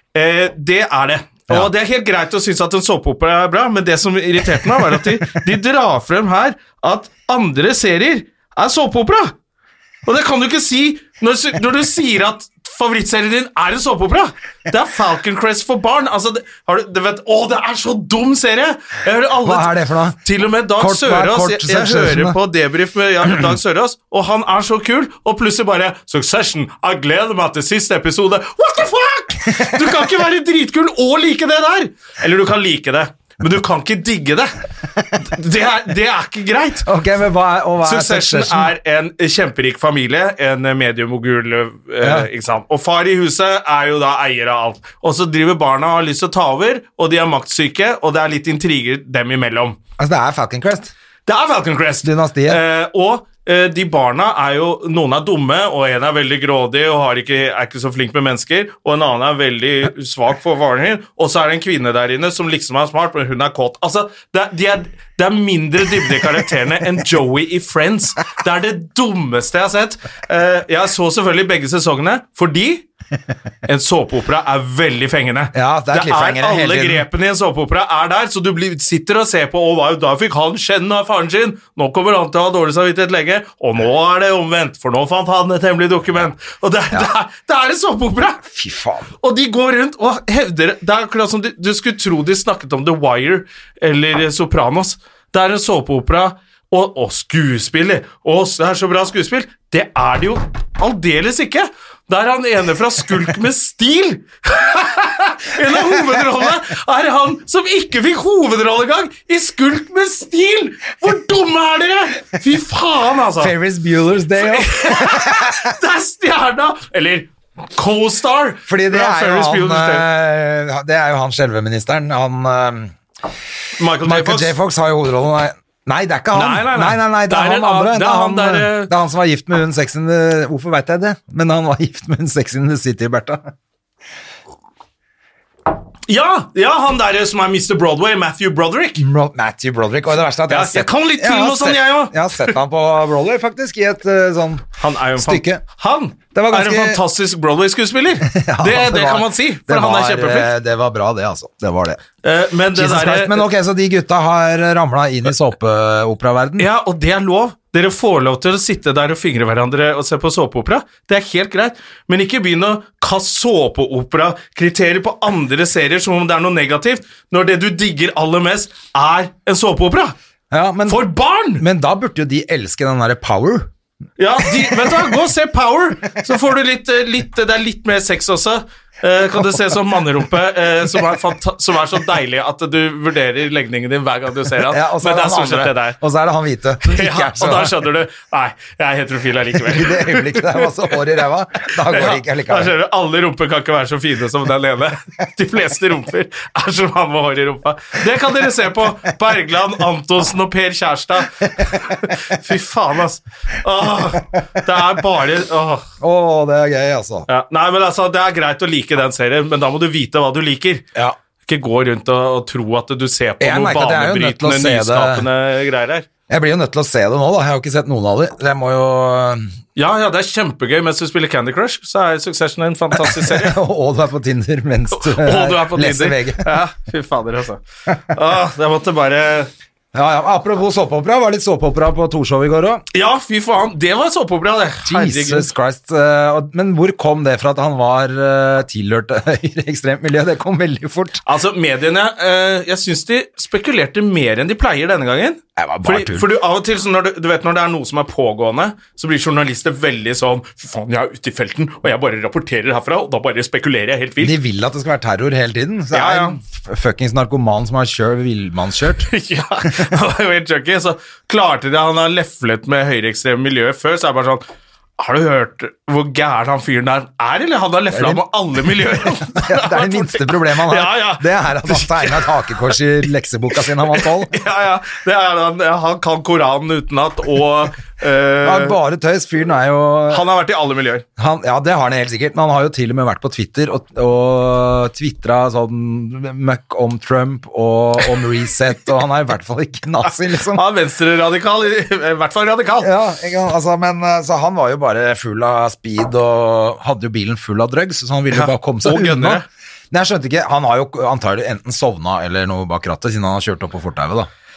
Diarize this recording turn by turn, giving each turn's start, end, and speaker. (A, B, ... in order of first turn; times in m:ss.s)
0:00.1-0:09.3 A
0:10.1-0:19.7 A
0:19.4-0:20.2 B
0:20.2-0:34.6 A
0:20.8-0:22.4 B
0:29.5-0:29.9 B
0:35.1-0:36.9 A
0:36.8-0:38.7 B
0:37.8-0:49.8 A
0:42.0-0:42.3 B
0:50.0-0:50.9 B
0:51.2-1:12.8 A
0:52.0-0:52.6 B
1:13.6-1:28.4 A
1:15.5-1:17.0 B
1:28.4-1:29.1 B
1:29.2-1:53.5 A
1:53.4-1:55.7 B
1:54.4-2:00.0 A
1:58.7-2:02.9 B
2:03.8-2:04.5 A
2:04.0-2:13.5 B
2:06.3-2:08.9 A
2:16.1-2:19.0 A
2:19.0-2:25.6 B
2:20.5-2:22.5 A
2:24.8-2:30.5 A
2:26.3-2:27.0 B
2:28.2-2:32.0 B
2:32.2-2:33.5 A
2:32.7-2:36.7 B
2:36.6-2:50.1 A
2:50.5-2:51.0 B
2:50.9-2:51.6 A
2:51.6-2:53.7 B
2:54.2-3:06.0 A
2:54.4-2:55.1 B
3:04.7-3:07.8 B
3:06.8-3:11.0 A
3:09.6-3:12.7 B
3:11.9-3:25.8 A
3:26.0-3:27.3 B
3:27.3-3:30.9 A
3:31.4-3:36.1 A
3:33.4-3:35.2 B
3:36.3-3:39.5 B
3:39.8-3:43.6 A
3:43.0-3:46.5 B
3:45.0-3:49.5 A
3:49.9-3:52.8 B
3:52.9-3:55.5 A
3:54.8-4:01.2 B
4:01.2-4:14.3 A
4:05.6-4:06.3 B
4:14.2-4:19.1 B
4:15.9-4:16.4 A
4:19.1-4:24.4 A
4:25.0-4:32.8 A
4:27.9-4:28.2 B
4:28.8-4:34.4 B
4:33.6-4:38.8 A
4:38.4-4:40.2 B
4:40.1-4:41.0 A
4:41.2-4:50.6 B
4:50.1-4:52.9 A
4:52.8-5:04.3 B
4:58.3-4:59.4 A